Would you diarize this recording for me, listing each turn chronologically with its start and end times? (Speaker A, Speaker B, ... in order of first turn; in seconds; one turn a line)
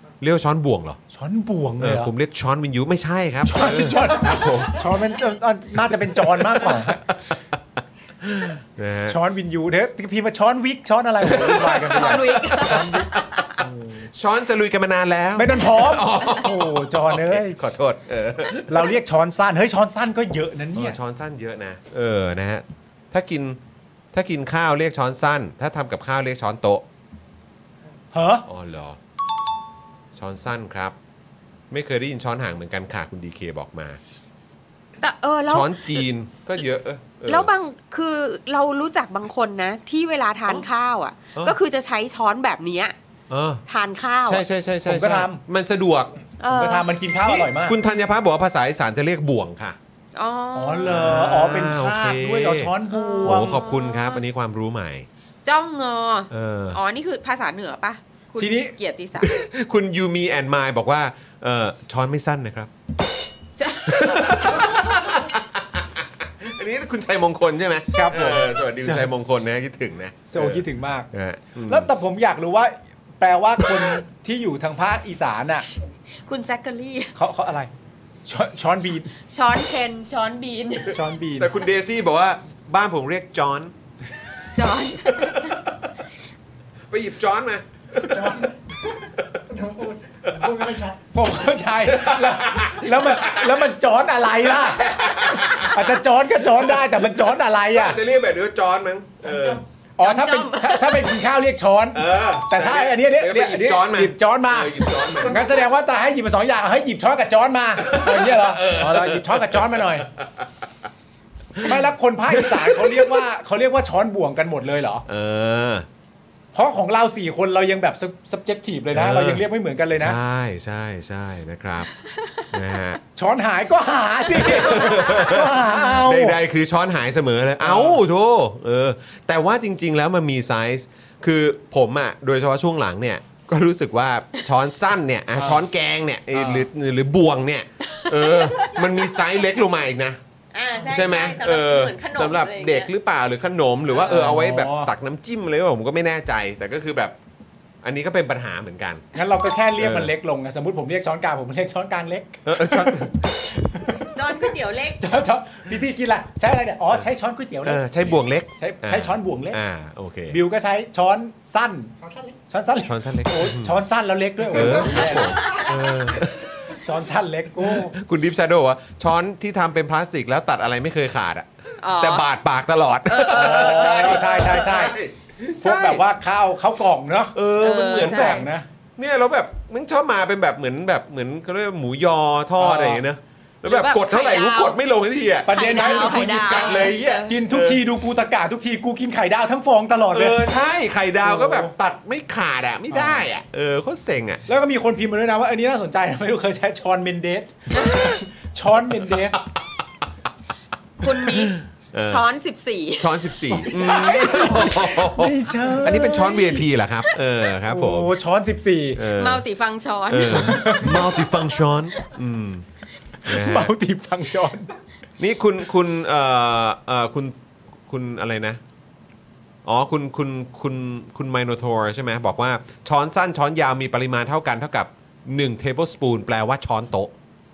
Speaker A: 0.2-1.0
Speaker B: 1.1-2.1
Speaker A: 1.8-4.8
Speaker B: 3.4-7.1
Speaker A: 6.4-7.0
Speaker A: 8.2-9.2
Speaker B: 9.1-14.1
Speaker A: 11.2-13.4
Speaker C: 11.5-13.6
Speaker A: 14.1-18.9
Speaker B: 15.3-17.6
Speaker B: 18.7-21.0
Speaker A: 20.7-23.6
Speaker A: 24.1-26.8
Speaker B: 28.1-28.5
Speaker A: 28.5-29.0
Speaker A: 30.1-30.9
Speaker A: 31.7-34.0
Speaker C: 35.0-36.0
Speaker A: 35.5-37.5
Speaker C: 37.3-42.9
Speaker A: 43.3-43.6
Speaker C: 43.7-44.4
Speaker A: 44.2-46.1
Speaker B: 44.8-45.4
Speaker C: 46.4-46.9
Speaker B: 46.5-47.8
Speaker A: 47.2-49.8
Speaker C: 50.1-51.1
Speaker B: 50.5-53.6
Speaker A: 50.9-52.7
Speaker C: 52.9-54.2
Speaker A: 53.2-55.0
Speaker C: 55.4-59.3
Speaker A: 56.3-56.8
Speaker B: 58.4-58.7
Speaker A: 59.2-62.7
Speaker C: 63.6-64.4
Speaker A: 63.9-71.9
Speaker B: 67.9-69.1
Speaker B: 70.3-71.1
Speaker B: 71.7-75.7
Speaker C: 76.2-77.1
Speaker B: 77.1-77.7
Speaker B: 78.2-79.1
Speaker C: 79.1-81.0
Speaker B: 80.9-81.5
Speaker A: 81.4-83.7
Speaker C: 84.5-85.6
Speaker A: 85.1-85.5
Speaker A: 86.9-88.5
Speaker A: 90.2-90.8
Speaker B: 90.6-98.0
Speaker A: 91.9-93.7
Speaker A: 94.5-95.8
Speaker A: 97.7-99.6
Speaker B: 99.4-110.1
Speaker C: 100.0-101.1
Speaker A: 101.9-105.5
Speaker A: 107.8-110.5
Speaker B: 111.6-115.0
Speaker A: 112.4-113.2
Speaker A: 115.1-115.8
Speaker B: 116.5-120.2
Speaker A: 118.9-119.4
Speaker A: 120.0-121.9
Speaker A: 122.5-123.0
Speaker B: 123.2-126.4
Speaker A: 124.4-140.2
Speaker B: 127.6-128.0
Speaker B: 135.3-135.6
Speaker B: 136.3-136.7
Speaker C: 138.1-138.8
Speaker C: 140.5-142.9
Speaker A: 140.8-147.1
Speaker B: 144.0-144.9
Speaker A: 147.8-149.1
Speaker B: 149.1-154.2
Speaker A: 149.8-150.1
Speaker A: 152.4-153.2
Speaker C: 154.1-155.0
Speaker B: 155.0-157.8
Speaker A: 157.6-160.4
Speaker B: 158.6-159.6
Speaker B: 160.3-165.4
Speaker A: 162.8-163.8
Speaker A: 164.5-166.4
Speaker B: 166.7-167.9
Speaker A: 167.6-176.0
Speaker C: 171.8-172.2
Speaker C: 173.1-174.6
Speaker B: 173.3-175.0
Speaker B: 175.6-177.4
Speaker A: 177.3-187.8
Speaker C: 177.6-178.5
Speaker B: 177.9-178.7
Speaker B: 182.6-183.0
Speaker C: 183.7-184.8
Speaker B: 185.4-190.4
Speaker C: 185.5-187.3
Speaker A: 190.1-194.4
Speaker B: 191.2-191.7
Speaker B: 192.9-193.3
Speaker B: 194.5-199.4
Speaker A: 197.8-198.2
Speaker C: 201.0-204.5
Speaker A: 201.0-202.2
Speaker A: 203.0-208.1
Speaker B: 203.6-206.6
Speaker C: 206.0-206.6
Speaker B: 207.7-209.0
Speaker A: 208.9-209.4
Speaker C: 209.1-211.0
Speaker A: 210.1-212.6
Speaker B: 210.2-211.1
Speaker B: 213.2-214.7
Speaker A: 213.2-213.7
Speaker A: 215.2-217.3
Speaker A: 217.9-218.6
Speaker A: 219.6-227.1